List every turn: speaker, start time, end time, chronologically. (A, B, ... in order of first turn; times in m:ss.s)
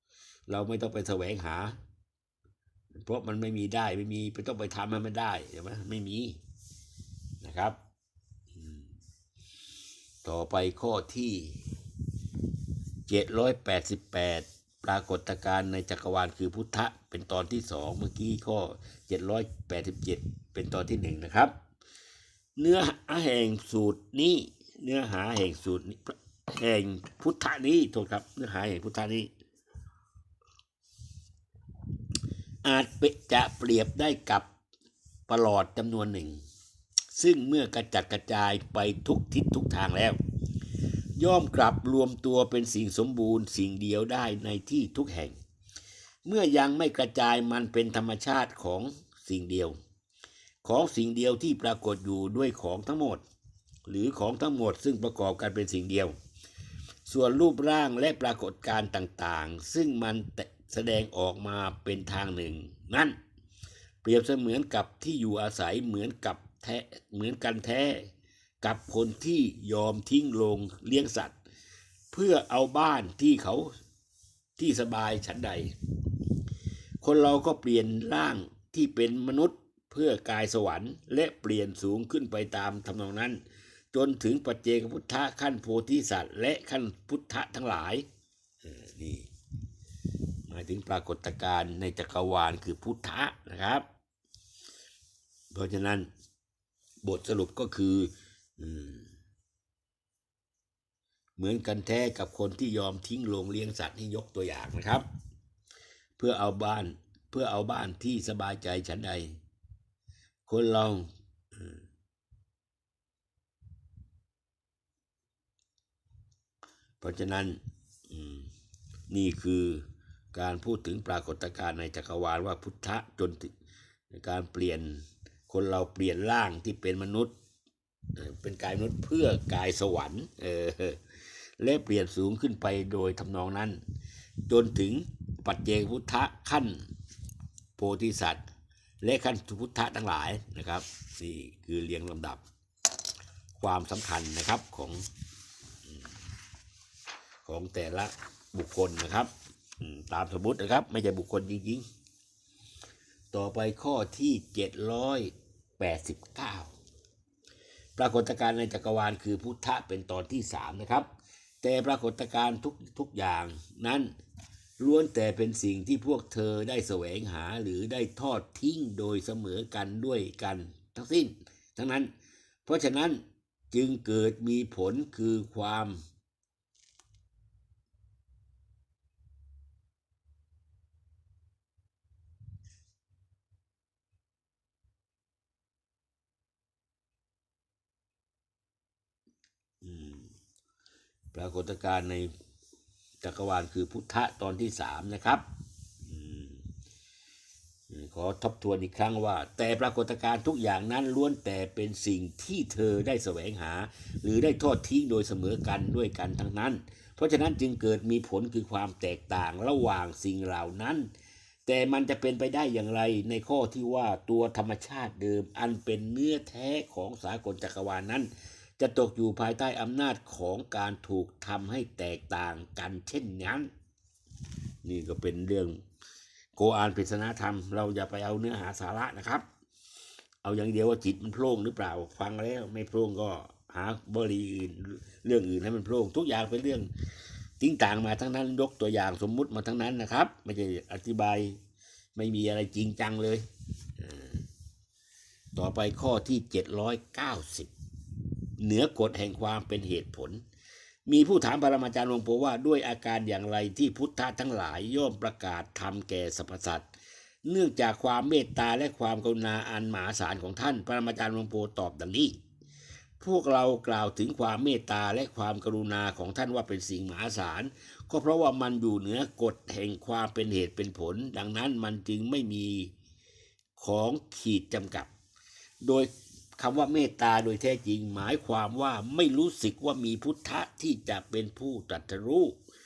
0:00.5-0:01.8 A
0:03.0-0:06.4 A
0:07.4-0:07.8 A
0:08.6-0:08.8 A
0:10.2-0:11.6 A
0:13.1-0:21.5 A
0:22.6-0:29.3 A
0:32.6-0:34.5 A
0:35.3-0:36.4 A
0:37.1-0:40.2 A
0:41.2-0:45.4 A
0:46.2-0:49.8 A
0:50.6-0:53.2 A
0:53.9-0:56.2 A
0:57.1-1:03.2 A
1:04.0-1:08.1 A
1:08.6-1:11.4 A
1:12.1-1:13.7 A
1:14.6-1:15.7 A
1:17.0-1:23.4 A
1:23.9-1:28.0 A
1:28.6-1:29.3 A
1:30.5-1:33.8 A
1:35.5-1:36.1 A
1:37.0-1:39.1 A
1:41.4-1:45.0 A
1:46.2-1:49.4 A
1:50.5-1:51.8 A
1:57.0-1:58.5 A
1:59.1-2:03.5 A
2:04.1-2:07.3 A
2:08.2-2:11.0 A
2:11.6-2:13.8 A
2:14.5-2:16.8 A
2:17.8-2:18.4 A
2:19.0-2:22.4 A
2:23.6-2:25.0 A
2:27.5-2:31.8 A
2:33.3-2:36.7 A
2:38.0-2:41.1 A
2:41.6-2:44.1 A
2:44.8-2:52.1 A
2:52.7-2:56.0 A
3:09.8-3:10.3 A
3:11.3-3:12.3 A
3:13.2-3:15.4 A
3:16.0-3:16.7 A
3:17.9-3:31.1 A
3:31.7-3:43.7 A
3:44.8-3:45.8 A
3:46.6-3:49.4 A
3:50.4-3:56.9 A
3:57.6-4:01.6 A
4:02.2-4:03.4 A
4:04.0-4:04.4 A
4:05.6-4:07.7 A
4:08.6-4:10.4 A
4:11.1-4:16.9 A
4:17.5-4:22.3 A
4:23.2-4:32.9 A
4:33.8-4:35.1 A
4:35.8-4:42.6 A